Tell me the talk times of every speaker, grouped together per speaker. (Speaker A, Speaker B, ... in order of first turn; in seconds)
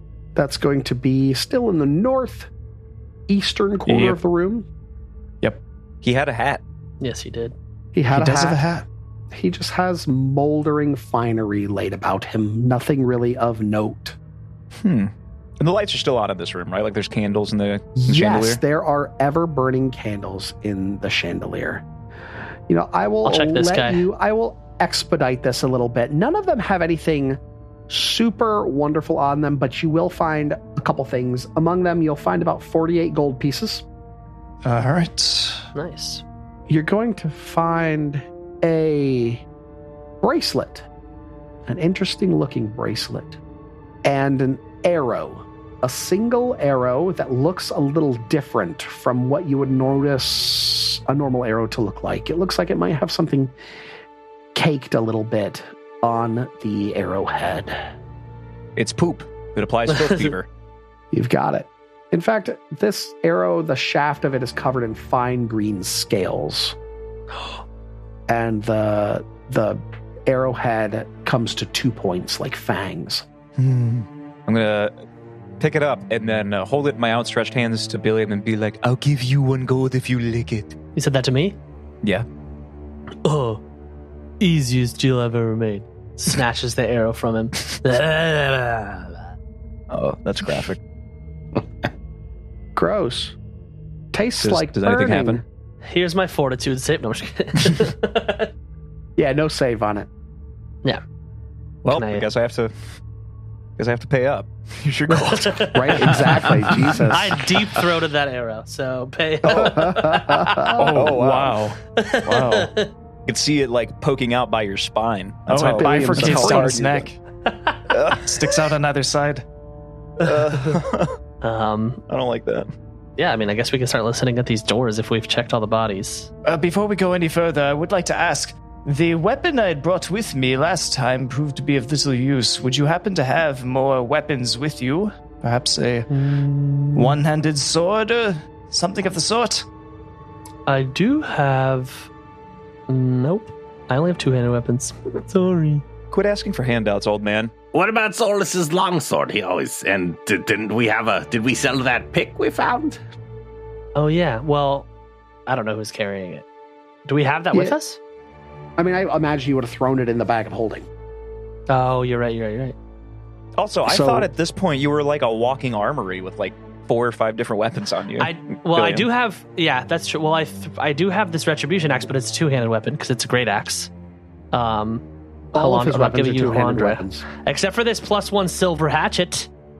Speaker A: 0.3-2.5, 3.3-4.7, 7.9-8.6, 9.3-14.2, 18.0-21.9, 22.7-33.9, 36.7-39.4, 40.2-40.9, 41.7-43.4, 44.0-53.5, 54.5-57.8, 61.1-66.8, 68.3-73.2, 92.8-93.4, 94.1-95.4, 99.2-100.1, 105.7-107.3, 109.5-111.1, 115.6-117.1, 158.8-160.9, 163.9-164.3, 175.6-177.2
Speaker B: 3.9-4.2, 8.1-8.8, 34.6-35.6, 110.7-112.7, 115.5-117.2, 118.1-119.4, 126.4-136.1, 136.9-139.6
Speaker C: 6.0-6.6, 14.8-18.6, 58.8-60.5, 73.6-74.9, 75.6-80.8, 89.9-90.8, 94.4-95.4, 101.8-102.7, 103.8-106.7, 110.9-111.7, 113.3-116.8, 117.9-118.3, 120.2-121.2, 122.1-122.7, 146.1-147.5, 163.6-169.1
Speaker D: 7.0-7.5, 23.2-24.1, 35.7-36.2, 59.9-60.3, 80.9-81.6, 83.2-83.6, 84.4-89.2, 95.8-98.5, 101.9-102.2, 105.1-110.8, 112.0-112.9, 117.5-117.8, 121.4-122.0, 123.2-126.3, 136.1-137.2, 140.7-142.1, 142.9-145.8, 153.9-154.9, 155.5-156.4, 157.1-158.0, 161.7-162.8, 168.2-173.9, 174.5-179.5
Speaker E: 147.7-153.0